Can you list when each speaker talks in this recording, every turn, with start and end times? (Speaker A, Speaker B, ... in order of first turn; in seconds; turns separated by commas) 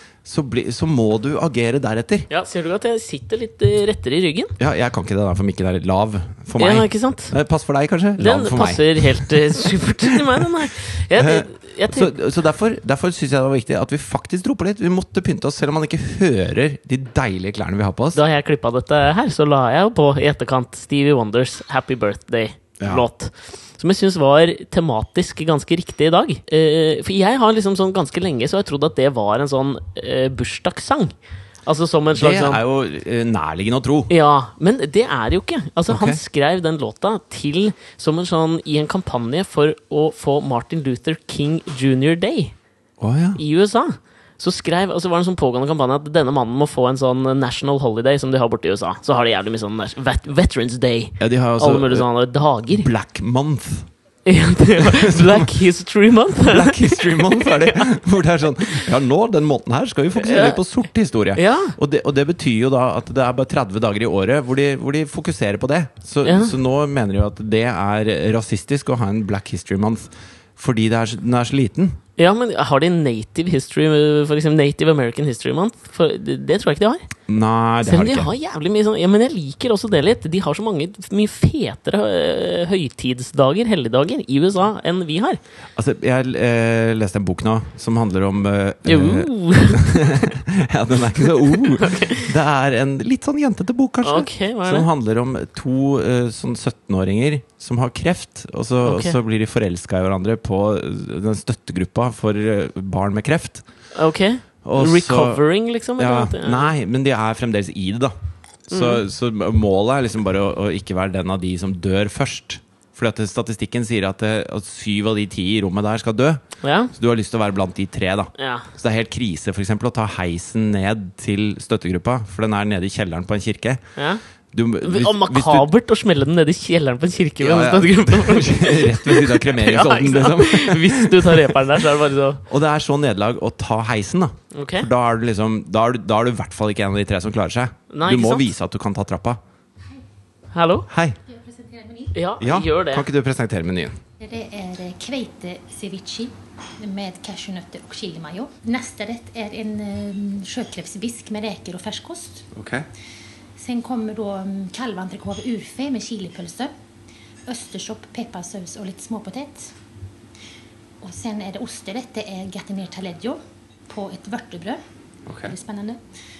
Speaker A: 0.2-2.3, Speaker B: 2.3-4.5, Speaker A: 4.6-10.4, Speaker B: 6.6-7.3, Speaker B: 8.2-12.1, Speaker A: 11.1-18.2, Speaker B: 18.1-31.1, Speaker A: 22.8-23.0, Speaker B: 31.6-32.6, Speaker A: 32.1-34.1, Speaker B: 34.1-42.5, Speaker A: 35.9-36.2, Speaker A: 43.0-43.4, Speaker B: 43.4-52.9, Speaker A: 51.2-52.0, Speaker A: 52.7-53.9, Speaker B: 54.2-57.9, Speaker A: 54.8-55.5, Speaker A: 56.4-72.0, Speaker B: 60.1-60.6, Speaker B: 61.3-61.8, Speaker B: 66.2-66.5, Speaker B: 72.2-77.1, Speaker A: 77.3-78.3, Speaker B: 77.8-85.4, Speaker A: 85.8-103.6, Speaker B: 88.8-90.2, Speaker B: 91.8-92.3, Speaker B: 94.0-94.9, Speaker B: 98.8-99.2, Speaker B: 103.9-106.7, Speaker A: 104.6-105.4, Speaker A: 106.0-108.1, Speaker A: 108.7-123.8, Speaker B: 108.7-109.0, Speaker B: 116.6-116.9, Speaker B: 118.4-118.7, Speaker B: 124.0-124.2, Speaker A: 124.5-125.7, Speaker B: 124.8-132.4, Speaker A: 127.4-131.8, Speaker A: 132.5-139.4, Speaker B: 134.5-134.9, Speaker B: 137.9-138.5, Speaker B: 140.5-140.9, Speaker A: 140.9-141.2, Speaker C: 141.2-142.1, Speaker B: 142.1-143.1, Speaker A: 142.4-144.0, Speaker C: 144.2-152.5, Speaker A: 152.5-152.8, Speaker C: 153.6-156.7, Speaker C: 157.4-159.7, Speaker C: 161.0-164.8, Speaker A: 165.3-165.6, Speaker C: 165.4-166.0